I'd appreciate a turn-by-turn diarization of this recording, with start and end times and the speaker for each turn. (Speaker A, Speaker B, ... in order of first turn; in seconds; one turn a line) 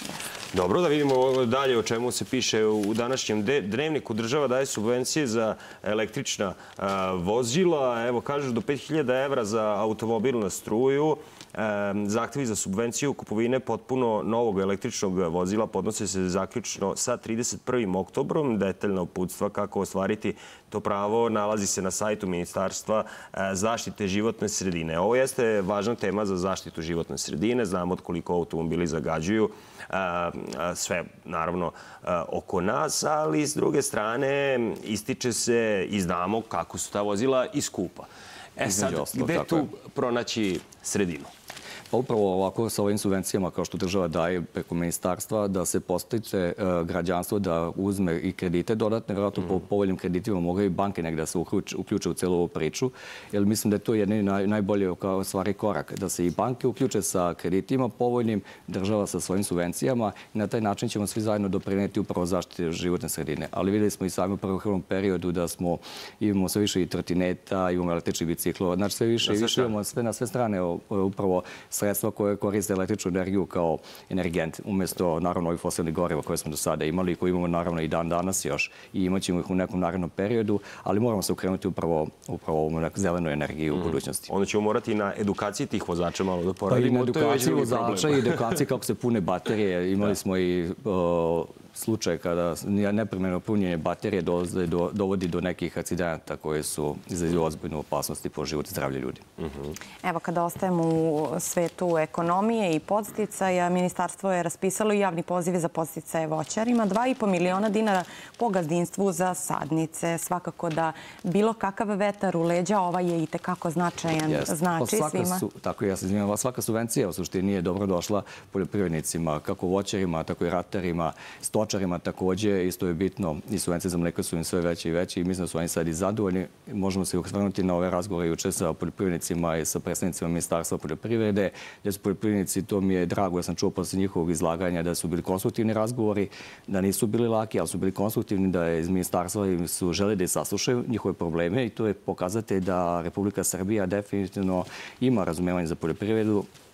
Speaker A: 0.5-41.3
Speaker B: 38.6-39.7
Speaker B: 41.9-84.3
Speaker A: 69.2-69.7
Speaker A: 83.7-88.6
Speaker B: 86.7-99.2
Speaker C: 100.0-115.4
Speaker B: 114.3-146.5